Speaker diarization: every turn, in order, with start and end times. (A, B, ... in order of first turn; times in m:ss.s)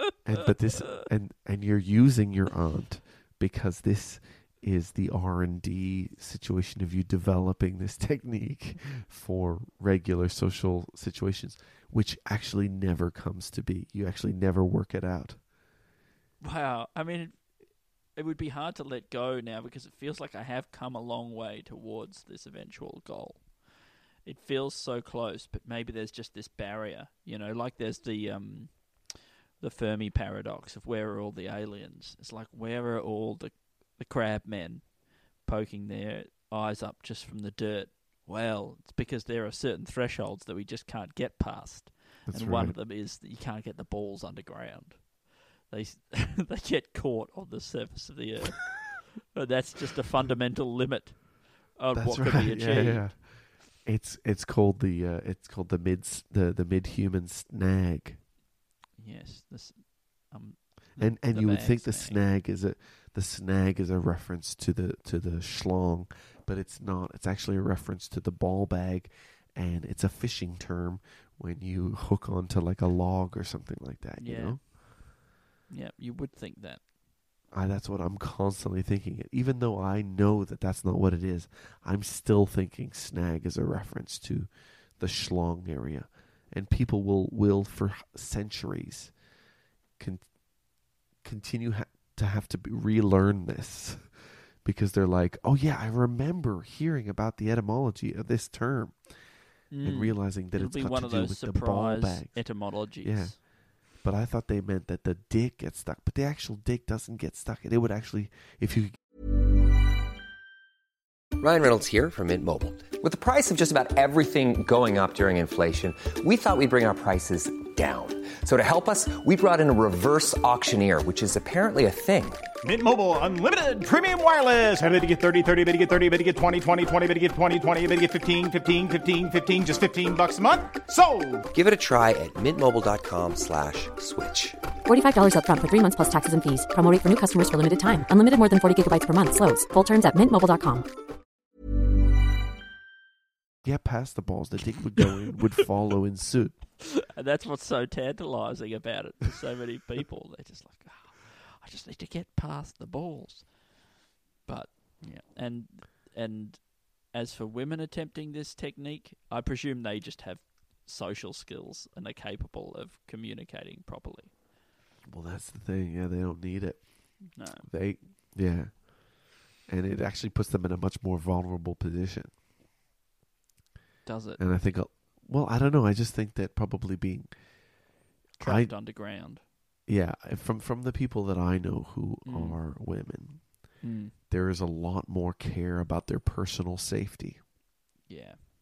0:00.2-0:15.4 A
0:16.4-0:53.1 B
0:42.2-0:42.7 A
0:51.9-0:58.2 A
0:59.0-1:02.2 B
1:01.0-1:14.6 A
1:14.2-1:14.7 B
1:15.7-1:16.8 B
1:17.5-1:29.2 A
1:30.0-1:49.0 A
1:39.7-1:43.4 B
1:51.4-2:02.4 C
2:02.6-2:11.4 D
2:11.5-2:14.6 C
2:14.8-2:20.9 E
2:23.6-2:26.8 A
2:27.1-2:33.7 B
2:34.4-2:44.3 B
2:45.0-2:52.3 A
2:47.3-2:47.6 B
2:54.0-2:54.4 B
2:54.4-2:57.9 A
2:58.4-2:59.4 B
2:58.4-2:58.8 A
2:59.8-3:07.4 A
3:02.2-3:02.6 B
3:03.8-3:04.1 B
3:08.1-3:08.4 B